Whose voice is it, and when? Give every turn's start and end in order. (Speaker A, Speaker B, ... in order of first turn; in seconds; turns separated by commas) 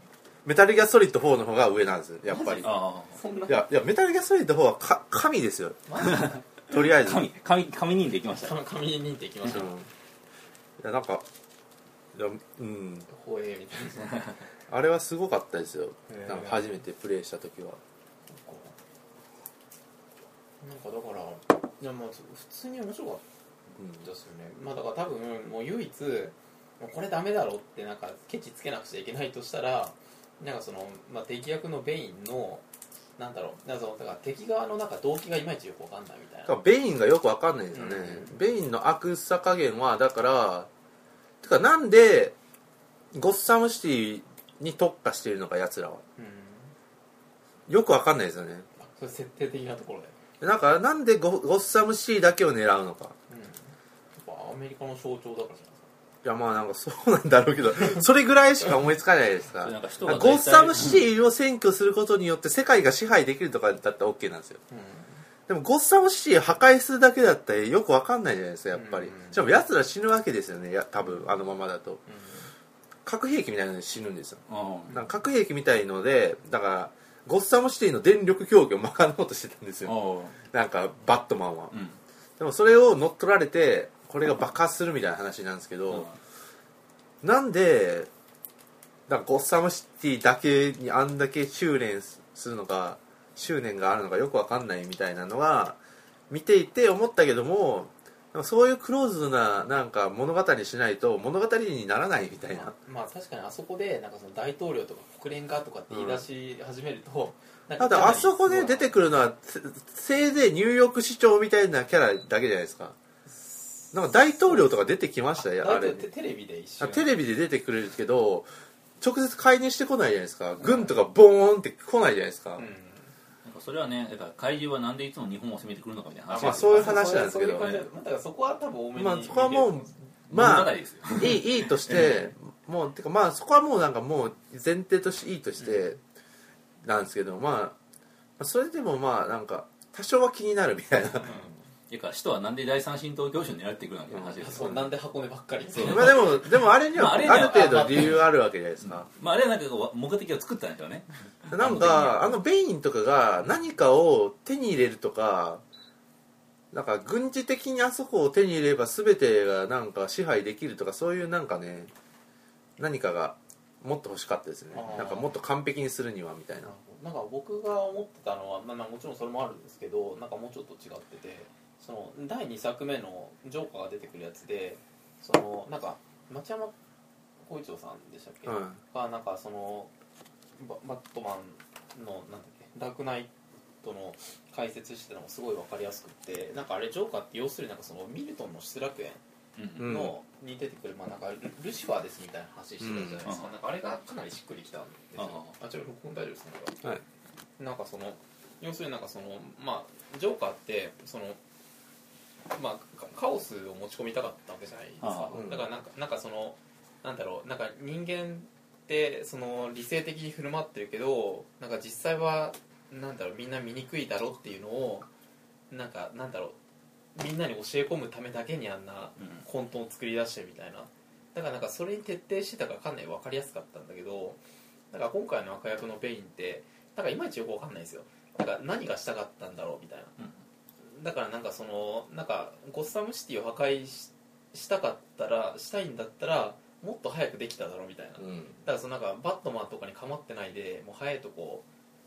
Speaker A: 0.5-2.7, Speaker B: 2.3-3.6, Speaker C: 2.6-3.2, Speaker A: 3.5-7.3, Speaker B: 5.9-6.4, Speaker C: 6.0-8.6, Speaker B: 8.4-9.8, Speaker A: 9.5-9.9, Speaker A: 10.8-11.3, Speaker A: 12.1-13.1, Speaker B: 13.1-14.4, Speaker A: 14.7-17.8, Speaker B: 16.1-16.6, Speaker B: 18.3-18.8, Speaker B: 20.6-23.2, Speaker A: 23.8-24.0, Speaker B: 24.0-32.6, Speaker B: 33.2-36.5, Speaker A: 36.5-40.7, Speaker B: 37.7-38.4, Speaker A: 41.4-42.4, Speaker A: 43.1-46.0, Speaker B: 46.2-46.8, Speaker A: 47.7-48.7, Speaker B: 48.8-50.1, Speaker A: 50.4-53.2, Speaker B: 53.3-55.9, Speaker A: 56.2-64.6, Speaker C: 59.6-61.0, Speaker B: 64.7-65.2, Speaker A: 65.5-72.0, Speaker B: 68.7-69.5, Speaker B: 72.1-72.5, Speaker A: 73.0-81.8, Speaker C: 74.5-75.0, Speaker C: 79.8-80.4, Speaker C: 81.7-82.0, Speaker A: 82.4-86.1, Speaker C: 85.9-86.2, Speaker A: 87.2-88.1, Speaker A: 89.1-102.7, Speaker B: 102.6-108.9, Speaker A: 105.9-106.2, Speaker A: 107.8-113.0, Speaker B: 113.4-114.8, Speaker A: 113.9-116.1, Speaker B: 115.4-117.1, Speaker A: 116.8-118.5, Speaker A: 119.0-122.7, Speaker B: 120.6-120.9, Speaker B: 122.6-123.2, Speaker C: 123.4-127.1, Speaker B: 126.3-129.9, Speaker A: 126.4-127.8, Speaker A: 128.9-136.0, Speaker C: 130.3-132.1, Speaker B: 131.9-132.3, Speaker A: 136.8-137.8, Speaker A: 138.4-141.4, Speaker B: 141.2-141.6, Speaker C: 141.9-144.9, Speaker A: 144.1-144.7, Speaker B: 144.4-148.2, Speaker C: 145.7-146.3, Speaker A: 145.8-149.1, Speaker C: 146.9-148.2, Speaker C: 148.8-152.4, Speaker A: 151.5-155.6, Speaker A: 156.7-161.9, Speaker A: 162.8-166.7, Speaker B: 164.7-165.3, Speaker B: 166.7-176.8, Speaker B: 177.4-179.9, Speaker A: 178.5-178.8, Speaker B: 180.6-189.2, Speaker C: 189.6-189.9, Speaker B: 189.8-196.8, Speaker A: 189.8-190.1, Speaker A: 192.8-193.2, Speaker C: 195.2-195.6, Speaker B: 197.6-201.4, Speaker B: 202.5-215.1, Speaker C: 205.0-205.3, Speaker A: 205.3-205.7, Speaker B: 215.7-216.6, Speaker B: 217.2-224.4, Speaker C: 219.2-219.4, Speaker B: 224.9-230.1, Speaker B: 230.8-241.7, Speaker A: 238.2-238.6